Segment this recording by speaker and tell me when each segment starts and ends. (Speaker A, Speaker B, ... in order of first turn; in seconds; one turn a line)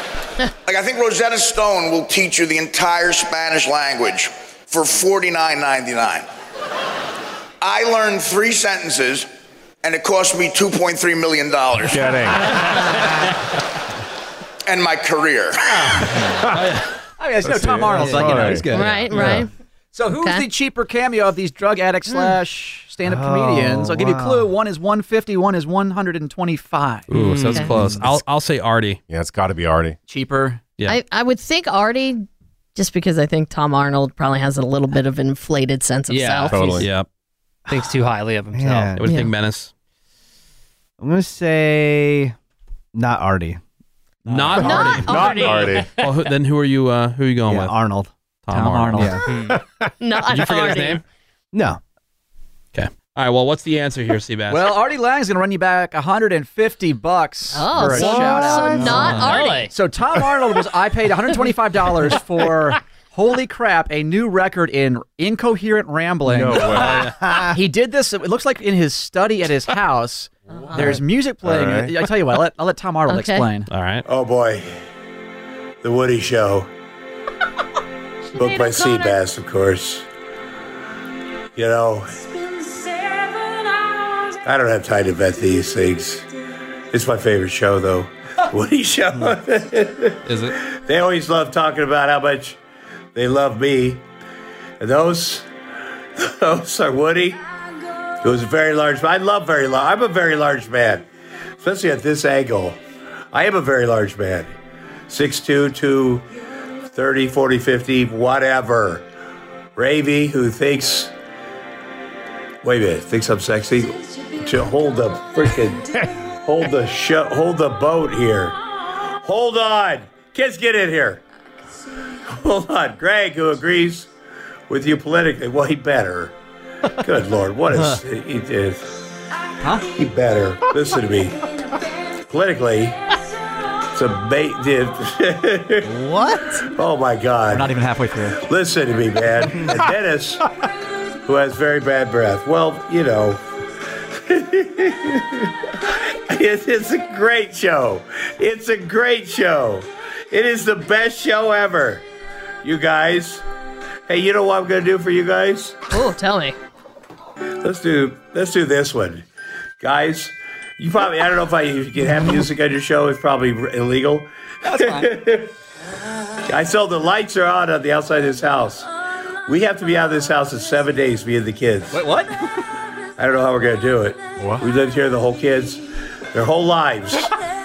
Speaker A: 0.7-6.3
Speaker A: 7.6-9.3
Speaker A: 9.8-12.1
Speaker B: 11.8-12.6
Speaker A: 14.7-15.8
Speaker B: 16.2-16.7
Speaker C: 16.5-17.0
Speaker D: 17.2-27.1
Speaker B: 17.4-19.5
Speaker E: 17.9-19.4
Speaker F: 18.7-19.5
Speaker F: 20.2-20.4
Speaker F: 22.1-22.4
Speaker B: 23.0-23.8
Speaker E: 23.1-24.5
Speaker C: 27.1-29.0
Speaker G: 27.1-27.7
Speaker B: 27.8-28.2
Speaker B: 29.1-30.0
Speaker D: 30.1-30.7
Speaker F: 30.9-36.8
Speaker G: 36.1-36.8
Speaker B: 36.5-36.9
Speaker C: 36.8-37.1
Speaker G: 37.7-39.0
Speaker E: 38.5-39.0
Speaker C: 39.0-39.7
Speaker F: 39.0-39.3
Speaker E: 41.0-42.3
Speaker E: 42.9-43.6
Speaker D: 44.3-44.6
Speaker C: 44.3-45.4
Speaker B: 44.5-45.9
Speaker F: 44.6-45.7
Speaker G: 45.1-45.8
Speaker C: 45.9-47.8
Speaker E: 47.5-48.1
Speaker C: 48.5-49.1
Speaker D: 48.5-49.1
Speaker E: 48.9-49.2
Speaker G: 49.2-49.6
Speaker F: 50.0-51.0
Speaker C: 50.3-51.0
Speaker E: 51.5-51.8
Speaker C: 52.7-54.7
Speaker D: 54.5-73.7
Speaker F: 57.5-59.7
Speaker E: 57.8-59.4
Speaker G: 58.2-58.6
Speaker G: 59.1-59.7
Speaker B: 66.2-67.2
Speaker E: 66.9-67.6
Speaker B: 70.7-72.1
Speaker F: 73.1-73.5
Speaker C: 73.7-74.0
Speaker H: 74.1-74.7
Speaker H: 75.8-76.7
Speaker H: 78.4-80.0
Speaker F: 78.4-79.2
Speaker H: 81.6-82.2
Speaker H: 84.4-86.3
Speaker H: 86.9-90.2
Speaker C: 90.3-90.5
Speaker H: 90.9-92.6
Speaker H: 93.2-94.0
Speaker H: 94.8-95.5
Speaker H: 96.2-97.4
Speaker H: 98.2-101.0
Speaker H: 101.6-102.8
Speaker H: 103.3-104.5
Speaker H: 105.1-106.3
Speaker H: 106.9-109.1
Speaker H: 109.8-111.1
Speaker H: 112.6-115.9
Speaker H: 116.5-118.6
Speaker H: 119.2-121.2
Speaker H: 122.3-124.1
Speaker H: 124.7-126.3
Speaker H: 127.0-129.0
Speaker D: 129.6-129.9
Speaker H: 129.8-131.4
Speaker H: 132.3-133.0
Speaker H: 133.9-135.9
Speaker E: 135.8-136.6
Speaker H: 136.7-137.7
Speaker D: 137.5-138.4
Speaker H: 138.4-140.4
Speaker H: 141.3-143.4
Speaker H: 144.3-145.5
Speaker H: 146.3-152.0
Speaker H: 152.6-153.4
Speaker H: 154.1-155.8
Speaker F: 155.9-156.6
Speaker H: 157.6-159.2
Speaker H: 159.8-165.5
Speaker D: 164.7-165.1
Speaker H: 166.5-168.9
Speaker H: 169.5-172.1
Speaker D: 171.9-172.3
Speaker H: 173.2-177.3
Speaker B: 174.4-174.7